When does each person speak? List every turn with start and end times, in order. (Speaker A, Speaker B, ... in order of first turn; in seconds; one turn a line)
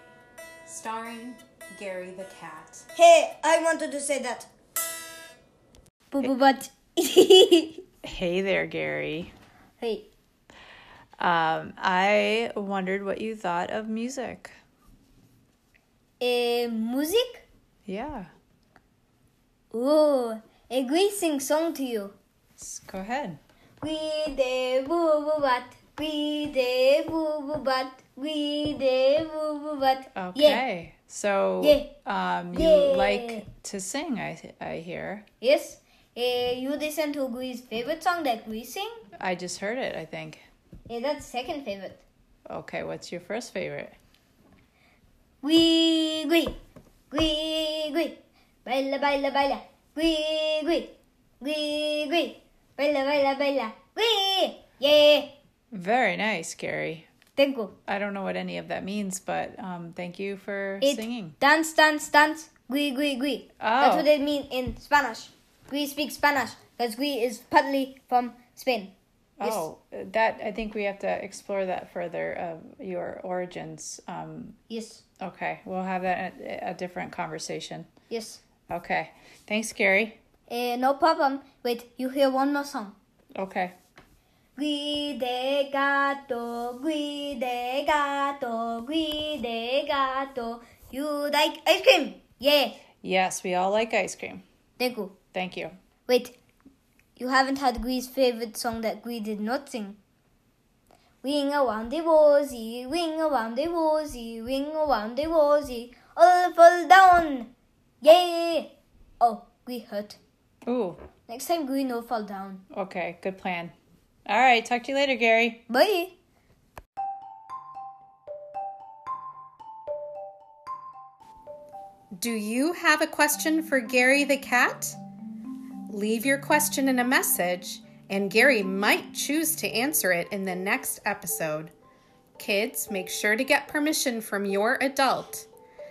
Speaker A: 0.6-2.9
Speaker B: 2.9-4.5
Speaker B: 6.1-7.8
Speaker C: 8.0-9.3
Speaker B: 9.8-10.1
Speaker C: 11.2-14.5
Speaker B: 16.2-17.4
Speaker C: 17.9-18.3
Speaker B: 19.7-22.1
Speaker C: 22.6-23.4
Speaker B: 23.8-30.6
Speaker C: 30.1-35.2
Speaker B: 31.6-31.9
Speaker B: 32.5-33.4
Speaker B: 35.4-39.0
Speaker C: 39.2-40.4
Speaker B: 40.9-42.0
Speaker C: 42.5-44.0
Speaker B: 45.4-46.6
Speaker B: 47.1-55.3
Speaker C: 55.7-57.1
Speaker B: 57.4-57.7
Speaker C: 57.9-61.4
Speaker B: 60.8-69.7
Speaker C: 63.6-64.1
Speaker C: 69.4-74.5
Speaker B: 74.7-75.0
Speaker C: 75.2-77.9
Speaker B: 78.1-78.4
Speaker C: 78.7-80.2
Speaker B: 80.5-83.0
Speaker C: 83.3-83.7
Speaker B: 84.5-92.8
Speaker C: 93.0-94.4
Speaker B: 94.8-95.2
Speaker C: 95.3-95.7
Speaker B: 96.1-96.3
Speaker B: 97.2-100.0
Speaker B: 101.2-110.2
Speaker C: 110.7-111.0
Speaker B: 111.3-112.6
Speaker C: 112.7-113.7
Speaker C: 114.2-115.6
Speaker B: 115.7-116.2
Speaker A: 122.1-125.0
Speaker A: 125.9-131.7
Speaker A: 132.4-135.5